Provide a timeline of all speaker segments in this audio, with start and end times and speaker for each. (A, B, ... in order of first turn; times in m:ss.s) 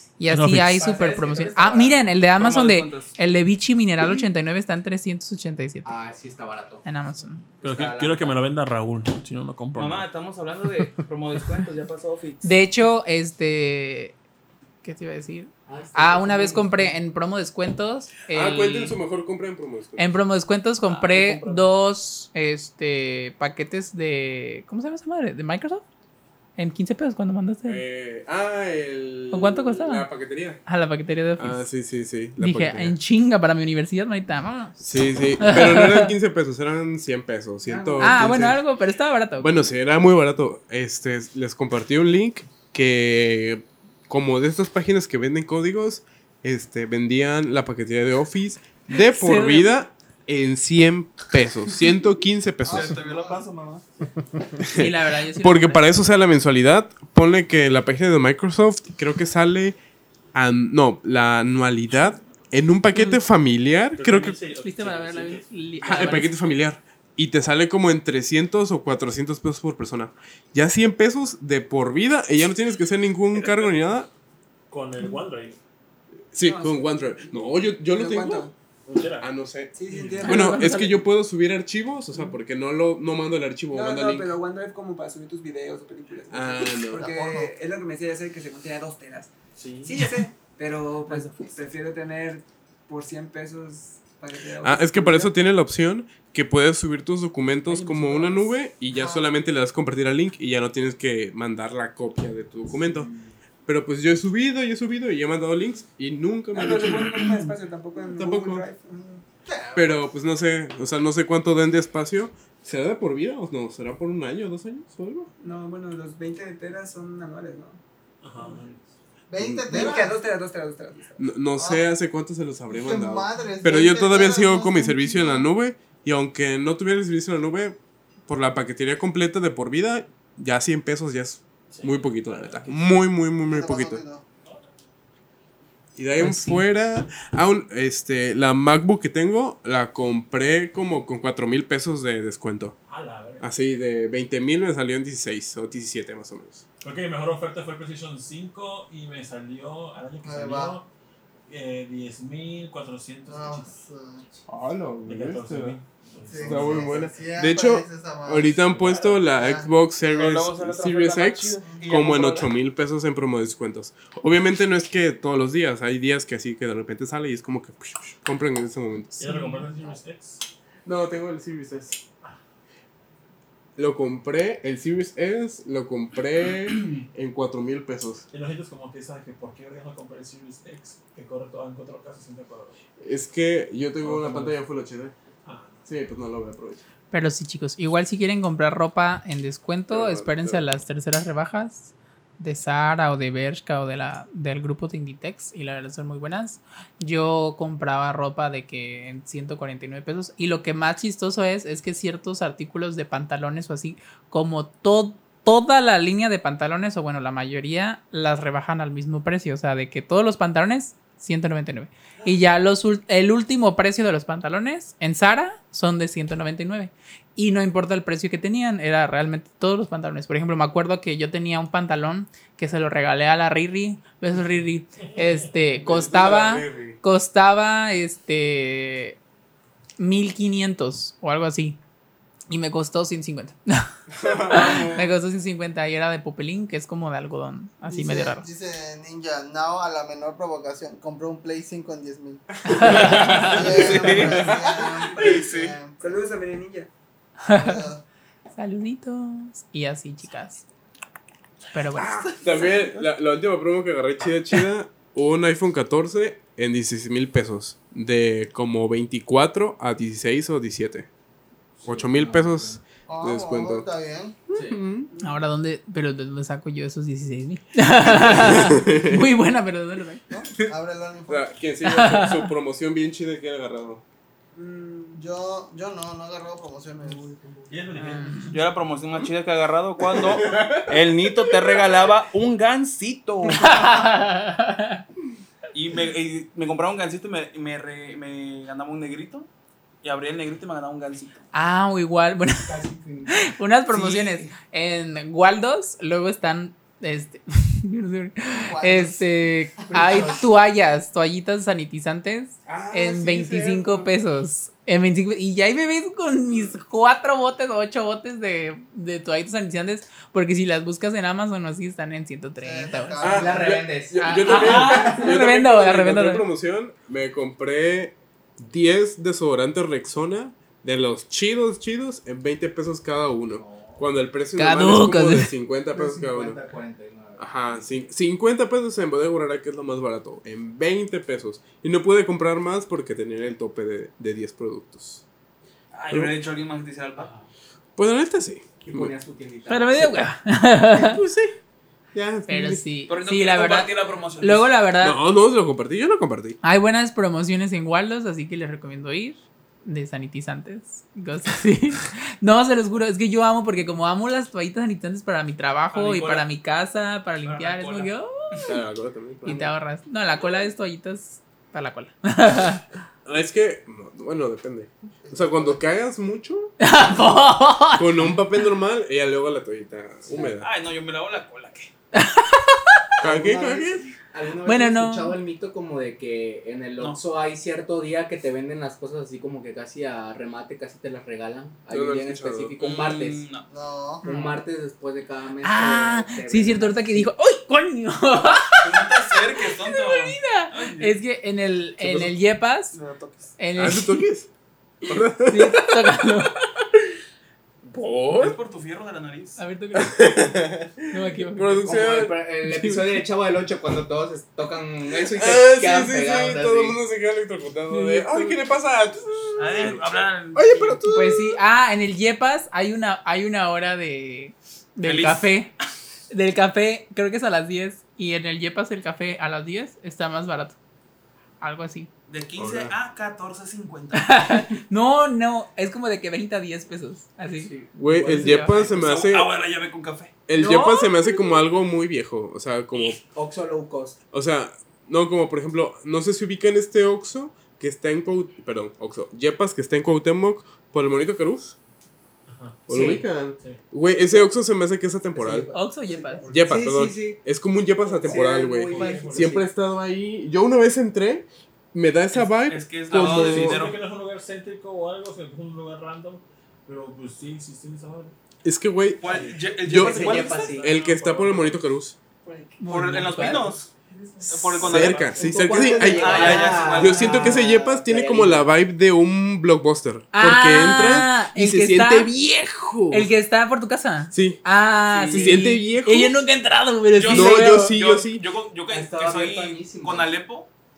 0:00.2-0:05.9 A
0:00.3-0:00.8 B
0:00.8-0:01.8 C
0:01.1-0:03.1 D
0:05.8-0:06.8 C
0:06.8-0:07.5 A
0:07.6-0:08.5 C
0:07.6-0:10.1 B
0:09.8-0:12.5 D
0:12.4-0:14.2 A
0:14.8-0:19.0 A
0:15.7-0:17.0 C
0:18.3-0:20.1 E
0:20.0-0:25.8 A
0:20.9-0:21.6 D
0:26.6-0:27.8 A
0:27.7-0:30.6 E
0:29.3-0:30.1 A
0:30.7-0:31.7 A
0:31.4-0:33.0 E
0:32.4-0:36.1 A
0:34.8-0:38.6 E
0:37.7-0:38.2 C
0:38.0-0:39.6 A
0:39.4-0:53.0 E
0:48.9-0:49.8 A
0:52.6-0:53.4 F
0:52.7-0:53.8 D
0:54.6-0:59.8 E
0:54.7-0:55.9 A
1:00.3-1:04.4 E
1:02.9-1:03.2 A
1:04.0-1:06.2 B
1:04.6-1:06.3 A
1:05.8-1:14.1 E
1:14.7-1:15.6 B
1:16.3-1:18.5 E
1:16.4-1:17.3 G
1:17.9-1:18.5 G
1:18.9-1:19.3 B
1:19.2-1:24.4 E
1:19.7-1:20.7 G
1:19.9-1:20.3 B
1:20.2-1:21.0 A
1:23.7-1:35.4 G
1:26.3-1:27.1 E
1:27.0-1:27.5 F
1:29.6-1:30.0 B
1:31.1-1:31.5 D
1:34.6-1:43.1 E
1:37.7-1:38.4 G
1:39.0-1:39.2 G
1:43.7-1:47.5 E
1:46.5-1:49.2 G
1:48.1-1:48.7 E
1:49.5-1:50.0 F
1:49.8-1:55.3 E
1:55.4-1:57.8 G
1:58.2-1:58.9 B
1:59.3-2:00.2 F
1:59.4-2:00.0 E
1:59.7-2:01.2 G
2:01.2-2:14.0 E
2:01.6-2:01.8 F
2:02.7-2:05.5 F
2:11.7-2:12.9 B
2:13.5-2:14.2 F
2:16.0-2:22.8 E
2:16.2-2:16.6 A
2:22.9-2:23.5 B
2:23.4-2:26.6 E
2:26.8-2:30.9 B
2:30.2-2:30.8 F
2:31.5-2:33.7 B
2:33.3-2:34.3 F
2:34.5-2:35.8 E
2:35.1-2:37.0 B
2:36.3-2:38.6 F
2:36.4-2:49.3 E
2:38.6-2:39.3 B
2:39.4-2:39.7 F
2:40.0-2:42.5 D
2:49.2-2:50.4 B
2:50.8-2:52.0 E
2:53.8-2:58.3 E
2:58.3-3:02.8 B
3:03.0-3:05.1 E
3:04.0-3:04.6 B
3:05.4-3:05.8 B
3:05.9-3:06.8 E
3:07.1-3:49.2 A
3:09.9-3:10.6 E
3:45.8-3:47.0 E
3:50.0-3:51.8 A
3:52.5-3:53.9 A
3:54.1-3:55.1 E
3:54.5-3:58.4 A
3:57.9-4:06.0 F
4:02.7-4:03.6 A
4:02.8-4:04.3 E
4:03.4-4:04.6 D
4:05.2-4:05.8 D
4:05.9-4:06.9 G
4:07.5-4:07.8 A
4:07.5-4:08.0 F
4:08.6-4:10.6 A
4:11.7-4:12.3 A
4:12.2-4:21.1 E
4:21.8-4:22.7 B
4:21.8-4:23.9 E
4:23.1-4:24.4 F
4:24.5-4:24.8 C
4:24.6-4:24.9 E
4:25.2-4:30.2 A
4:28.2-4:29.2 E
4:30.3-4:31.5 F
4:31.3-4:34.0 E
4:31.8-4:32.5 A
4:34.5-4:35.2 G
4:35.2-4:37.2 F
4:37.1-4:37.7 C
4:37.7-4:38.5 B
4:38.0-4:38.3 G
4:38.1-4:38.6 A
4:38.5-4:43.8 D
4:40.2-4:41.1 E
4:43.6-4:45.0 A
4:45.7-4:49.5 D
4:50.0-4:51.5 D
4:51.5-5:16.4 A
4:52.6-4:53.5 C
4:54.0-4:54.4 D
4:58.5-4:59.5 F
4:59.9-5:00.4 C
5:02.7-5:04.0 C
5:02.8-5:03.8 E
5:12.6-5:13.6 F
5:13.2-5:26.6 E
5:13.2-5:15.2 C
5:14.7-5:15.1 D
5:23.5-5:24.0 C
5:24.6-5:25.5 A
5:25.9-5:28.1 C
5:27.4-5:35.2 E
5:35.9-5:37.3 D
5:36.1-5:36.4 E
5:37.2-5:37.5 C
5:38.0-5:39.1 E
5:38.8-5:40.2 C
5:39.7-5:41.2 A
5:40.9-5:41.5 E
5:42.1-5:42.8 E
5:42.5-5:45.2 A
5:43.1-5:44.7 D
5:45.0-5:46.6 E
5:46.6-5:58.6 A
5:55.9-5:56.5 D
5:57.4-5:58.7 D
5:58.7-5:59.7 E
5:59.4-6:02.8 A
6:03.2-6:06.7 E
6:05.2-6:05.8 F
6:06.8-6:08.4 A
6:08.0-6:10.7 E
6:10.4-6:11.9 D
6:12.1-6:13.1 A
6:13.2-6:14.1 E
6:13.2-6:23.4 C
6:14.6-6:15.4 A
6:21.9-6:22.8 E
6:22.8-6:23.7 D
6:23.7-6:24.2 F
6:24.2-6:27.3 C
6:24.2-6:24.6 A
6:25.6-6:33.0 A
6:28.8-6:31.1 D
6:32.9-6:33.6 D
6:33.6-6:34.2 A
6:33.8-6:34.5 E
6:35.0-6:36.3 E
6:35.4-6:36.5 A
6:37.9-6:38.6 E
6:38.4-6:39.6 D
6:39.6-6:40.4 A
6:39.9-6:43.2 E
6:41.1-6:42.0 A
6:41.8-6:47.0 C
6:45.2-6:51.6 E
6:47.9-6:48.5 A
6:49.6-6:51.0 D
6:51.1-6:55.7 A
6:55.0-6:55.5 D
6:56.3-7:00.8 A
7:01.6-7:02.1 A
7:02.3-7:04.6 D
7:02.6-7:02.9 E
7:04.1-7:08.9 A
7:07.5-7:08.5 C
7:07.9-7:09.5 E
7:08.7-7:10.3 D
7:10.5-7:13.2 E
7:10.5-7:11.3 A
7:13.2-7:14.2 C
7:14.3-7:21.8 E
7:22.5-7:23.8 B
7:22.9-7:25.7 E
7:22.9-7:23.2 C
7:25.4-7:25.7 C
7:25.7-7:26.9 G
7:25.7-7:26.4 A
7:26.5-7:33.8 E
7:26.7-7:27.4 C
7:28.2-7:29.7 C
7:28.9-7:29.6 B
7:32.3-7:34.0 D
7:33.3-7:38.3 B
7:38.6-7:42.2 E
7:39.2-7:40.8 D
7:39.2-7:41.8 B
7:39.9-7:40.9 C
7:42.5-7:42.8 G
7:42.8-7:43.7 A
7:42.9-7:43.9 D
7:44.5-7:45.3 D
7:44.5-7:53.3 E
7:44.9-7:45.4 B
7:45.3-7:48.7 C
7:45.8-7:47.5 D
7:50.3-7:52.3 A
7:53.1-7:57.9 A
7:54.3-7:54.6 E
7:55.2-7:56.4 E
7:55.3-7:55.6 D
7:57.2-8:00.7 D
7:57.2-7:58.4 E
7:58.9-8:00.4 C